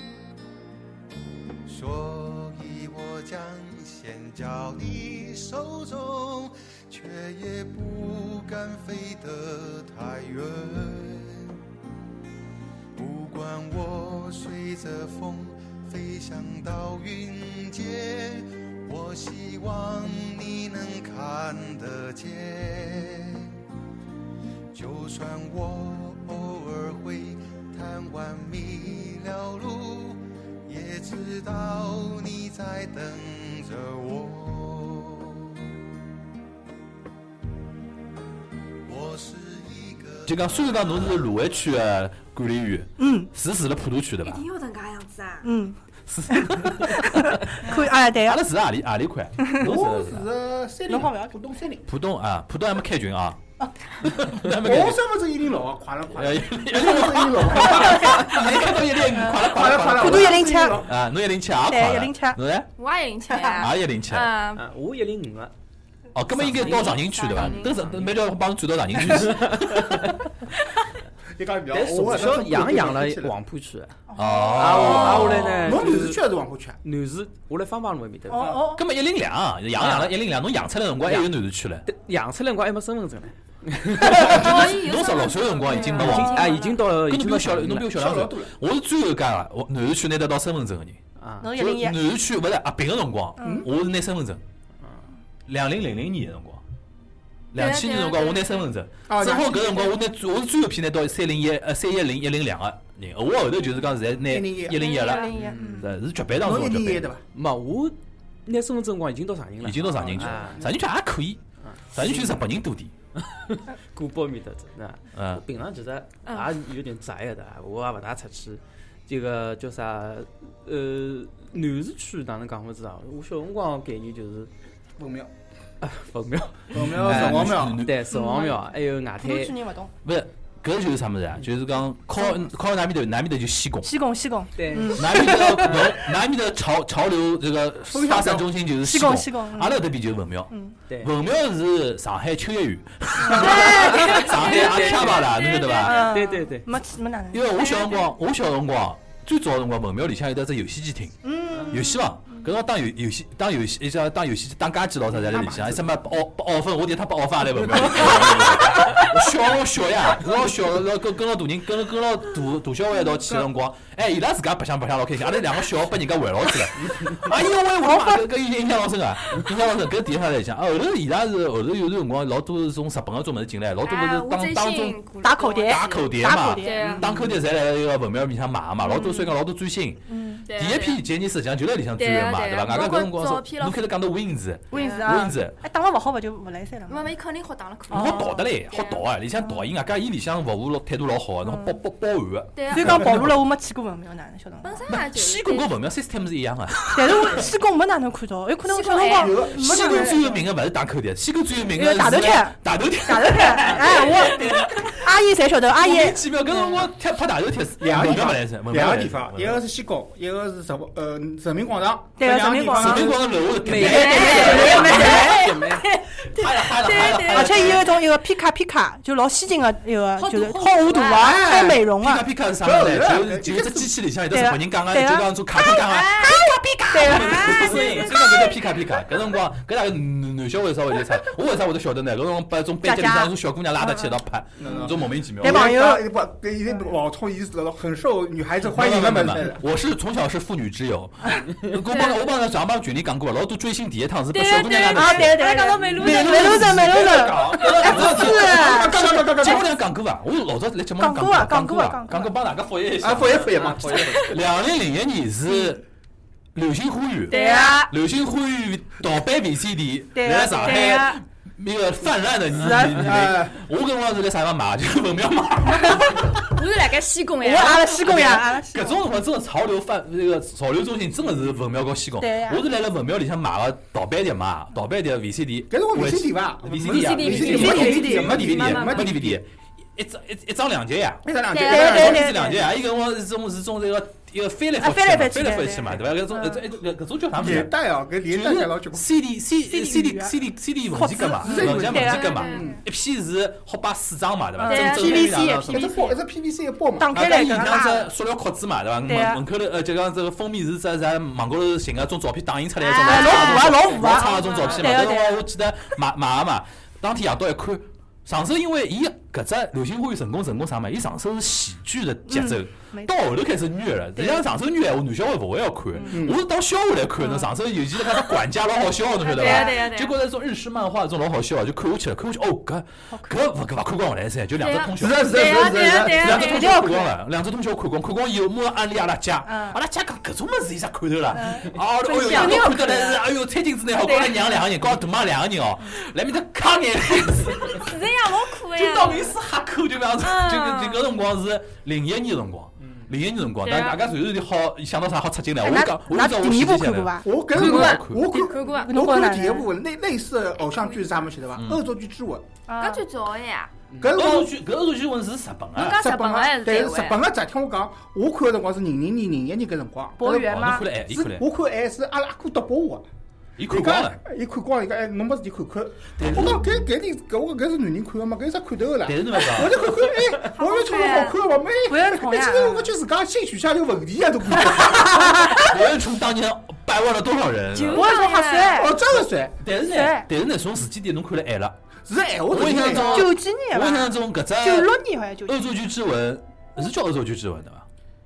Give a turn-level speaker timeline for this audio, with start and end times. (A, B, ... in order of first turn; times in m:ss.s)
0:01.6-0:11.5 A
0:13.0-0:23.5 A
0:24.7-0:35.6 A
0:38.8-0:41.5 A
0:40.2-0:44.4 B
0:43.0-0:43.3 C
0:44.2-0:45.5 D
0:45.4-0:45.8 C
0:46.1-0:50.3 B
0:46.3-0:48.4 C
0:49.6-0:51.9 E
0:50.9-0:51.3 C
0:51.9-0:53.4 B
0:54.0-0:55.0 B
0:54.5-0:58.4 E
0:56.1-1:02.7 B
0:57.8-0:58.2 C
0:59.1-1:00.8 C
0:59.3-1:00.9 E
1:01.7-1:02.4 C
1:02.8-1:04.6 D
1:03.3-1:03.6 C
1:03.6-1:04.3 B
1:04.5-1:05.5 F
1:06.1-1:10.2 B
1:06.3-1:08.1 F
1:06.6-1:07.8 D
1:09.0-1:10.2 F
1:11.4-1:13.3 E
1:11.7-1:16.2 F
1:14.1-1:15.1 C
1:14.2-1:15.7 B
1:15.1-1:15.7 D
1:15.6-1:16.8 E
1:16.8-1:18.5 F
1:18.3-1:18.8 C
1:18.4-1:18.7 E
1:18.7-1:21.8 B
1:19.8-1:20.1 F
1:21.0-1:21.3 F
1:21.8-1:24.7 F
1:24.0-1:31.0 B
1:24.1-1:26.8 D
1:25.7-1:26.0 C
1:25.9-1:27.9 F
1:27.8-1:28.5 E
1:31.2-1:31.5 F
1:31.4-1:32.0 C
1:31.5-1:34.4 B
1:33.4-1:33.6 C
1:33.4-1:33.7 E
1:35.5-1:36.6 B
1:37.5-1:47.1 B
1:37.5-1:38.7 D
1:39.1-1:40.0 E
1:44.2-1:44.9 E
1:44.8-1:45.3 D
1:44.8-1:45.8 C
1:45.3-1:45.9 F
1:46.4-1:47.2 E
1:47.3-1:50.7 F
1:49.6-1:52.9 B
1:49.9-1:50.7 E
1:51.6-1:52.4 F
1:53.2-2:04.5 F
1:55.2-1:55.4 B
1:56.2-1:56.5 D
2:05.0-2:05.3 E
2:05.8-2:09.6 F
2:06.7-2:07.8 E
2:06.8-2:08.1 B
2:08.1-2:08.6 C
2:09.2-2:09.9 C
2:10.0-2:13.9 B
2:13.8-2:15.7 C
2:14.6-2:16.0 F
2:14.9-2:26.1 B
2:17.9-2:18.5 E
2:18.8-2:19.9 C
2:20.5-2:20.7 C
2:23.2-2:24.5 C
2:23.7-2:25.4 F
2:24.3-2:25.9 D
2:25.7-2:28.0 C
2:25.9-2:26.7 F
2:27.3-2:55.0 B
2:31.2-2:32.4 C
2:35.2-2:35.8 E
2:47.8-2:48.2 C
2:53.8-2:57.1 D
2:55.2-2:57.0 C
2:55.6-3:05.6 B
2:58.8-2:59.3 C
3:00.1-3:00.4 C
3:00.5-3:01.0 D
3:02.0-3:03.9 D
3:04.7-3:05.2 D
3:04.7-3:07.1 C
3:06.9-3:09.0 D
3:07.9-3:13.4 B
3:07.9-3:08.4 C
3:11.4-3:11.8 C
3:12.5-3:13.0 D
3:12.7-3:14.9 C
3:14.6-3:15.7 D
3:14.9-3:17.5 B
3:16.9-3:20.2 C
3:18.6-3:19.4 D
3:19.0-3:20.4 E
3:19.5-3:25.1 B
3:21.7-3:26.8 C
3:25.7-3:29.6 B
3:27.8-3:33.3 E
3:32.2-3:33.2 C
3:32.7-3:35.4 B
3:33.6-3:35.9 F
3:33.8-3:37.7 D
3:34.0-3:35.5 C
3:36.3-3:38.0 B
3:37.3-3:42.3 C
3:40.2-3:41.4 D
3:41.0-3:41.8 E
3:42.0-3:55.7 B
3:42.6-3:44.0 E
3:44.3-3:48.0 C
3:45.7-3:46.4 D
3:47.0-3:48.7 D
3:52.8-3:54.1 C
3:54.6-3:59.6 E
3:55.4-3:56.1 C
3:58.6-4:13.6 B
4:04.3-4:06.8 D
4:04.9-4:09.6 C
4:07.6-4:07.9 D
4:07.8-4:09.6 E
4:11.0-4:12.3 C
4:13.0-4:14.4 E
4:13.3-4:14.4 F
4:14.2-4:15.8 B
4:16.5-4:26.4 B
4:17.3-4:17.8 C
4:17.3-4:17.9 D
4:20.1-4:21.1 C
4:20.6-4:21.2 D
4:22.6-4:23.2 C
4:23.0-4:23.6 E
4:25.8-4:26.2 C
4:26.4-4:28.1 D
4:27.4-4:29.0 C
4:27.6-4:55.8 B
4:32.2-4:32.6 C
4:35.7-4:39.4 E
4:36.8-4:39.1 D
4:37.5-4:38.0 C
4:41.2-4:42.7 E
4:41.5-4:42.2 D
4:41.6-4:42.6 C
4:44.8-4:46.6 C
4:47.3-4:49.1 E
4:49.6-4:50.4 C
4:50.9-4:52.7 C
4:51.4-4:52.8 E
4:52.0-4:52.7 D
4:54.6-4:56.1 C
4:54.7-4:55.9 D
4:54.9-4:57.2 E
4:57.0-4:58.1 C
4:57.1-5:38.0 B
4:59.0-4:59.4 C
5:02.8-5:05.1 D
5:03.0-5:05.4 C
5:12.3-5:13.2 C
5:16.1-5:16.4 E
5:17.2-5:17.5 C
5:19.2-5:20.1 D
5:19.3-5:19.7 C
5:23.1-5:23.4 C
5:24.6-5:26.8 D
5:25.0-5:26.4 E
5:26.3-5:27.1 C
5:29.4-5:29.8 C
5:31.3-5:33.1 C
5:32.1-5:33.2 D
5:34.0-5:34.4 D
5:37.7-5:39.4 D
5:38.7-5:48.3 B
5:40.2-5:41.1 D
5:43.6-5:44.0 D
5:45.6-5:47.3 C
5:47.2-5:52.5 E
5:47.5-5:49.0 D
5:48.3-5:49.7 C
5:50.7-5:51.2 D
5:51.5-5:51.8 B
5:52.7-5:53.0 C
5:52.8-5:53.7 D
5:54.0-5:54.5 E
5:54.1-5:56.0 B
5:55.8-5:57.2 D
5:55.9-6:03.0 E
6:00.2-6:00.8 C
6:00.3-6:01.5 B
6:03.6-6:04.2 B
6:03.7-6:15.8 E
6:06.2-6:06.8 B
6:09.0-6:09.8 B
6:10.5-6:11.4 D
6:11.9-6:12.9 C
6:14.6-6:18.1 B
6:15.4-6:15.6 C
6:17.7-6:18.8 D
6:17.9-6:19.0 C
6:18.7-6:19.6 E
6:19.2-6:21.8 B
6:19.8-6:20.3 C
6:22.1-6:23.3 E
6:22.5-6:24.9 B
6:23.0-6:25.7 C
6:25.4-6:27.8 B